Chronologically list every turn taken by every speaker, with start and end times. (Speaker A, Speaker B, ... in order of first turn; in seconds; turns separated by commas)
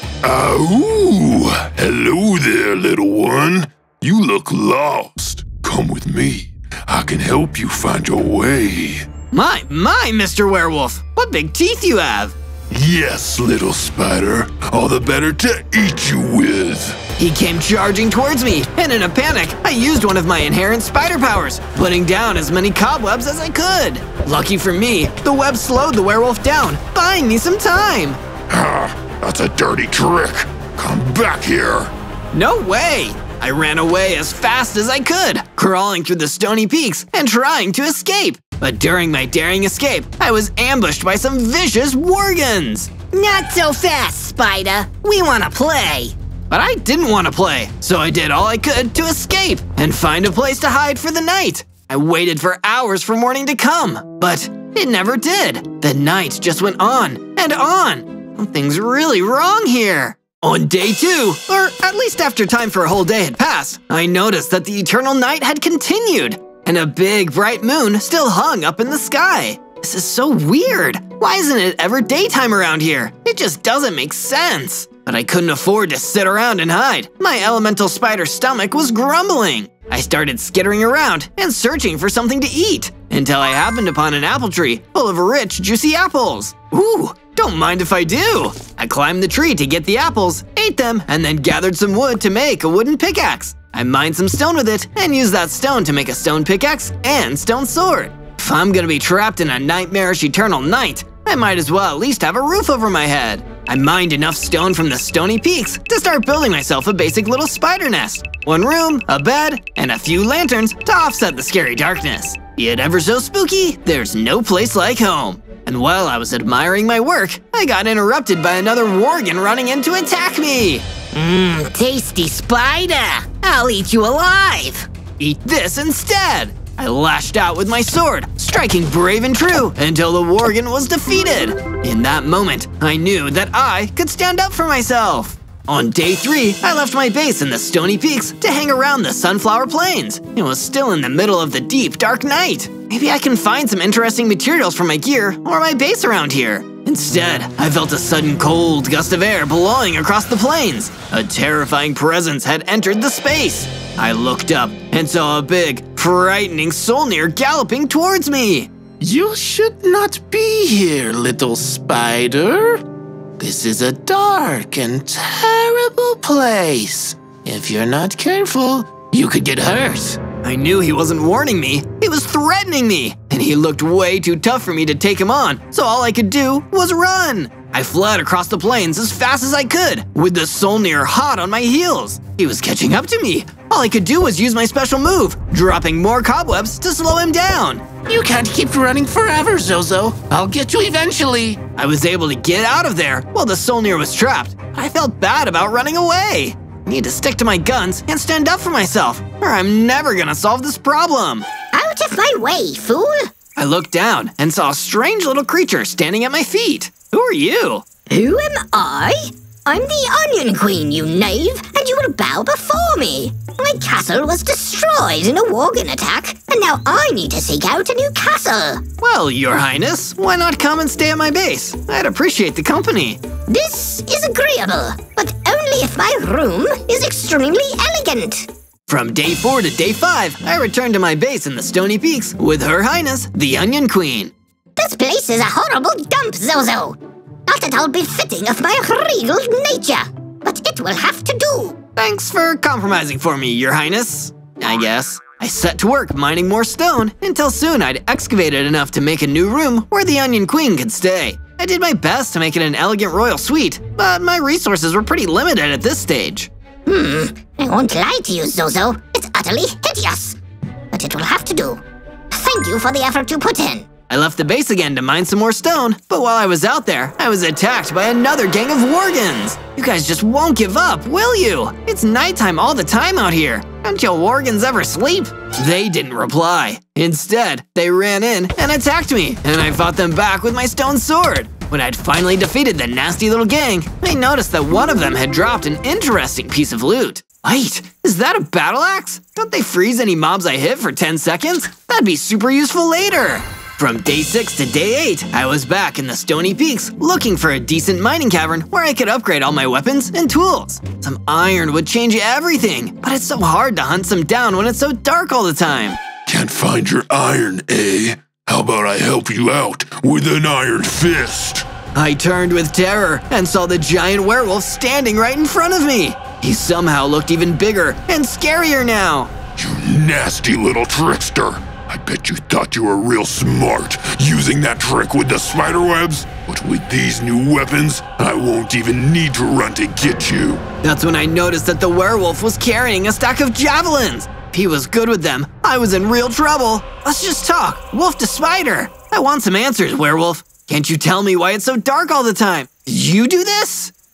Speaker A: 0.2-9.1, Speaker B: 9.3-12.3, Speaker A: 12.7-17.0, Speaker B: 17.2-28.2, Speaker A: 28.5-31.9, Speaker B: 32.3-120.8, Speaker C: 121.1-124.9, Speaker B: 125.2-158.7, Speaker D: 159.0-162.8, Speaker D: 163.4-170.2, Speaker B: 170.4-187.9, Speaker D: 188.1-191.6, Speaker B: 191.8-201.5, Speaker C: 201.7-203.3, Speaker B: 203.6-207.9, Speaker C: 208.1-218.8, Speaker B: 219.0-223.2, Speaker C: 223.5-228.5, Speaker B: 228.9-234.3, Speaker C: 234.8-241.8, Speaker B: 242.0-256.5, Speaker C: 256.9-260.4, Speaker C: 260.9-263.9, Speaker B: 264.1-306.0, Speaker A: 306.3-311.7, Speaker B: 311.9-319.3, Speaker A: 319.6-330.6, Speaker B: 330.8-343.9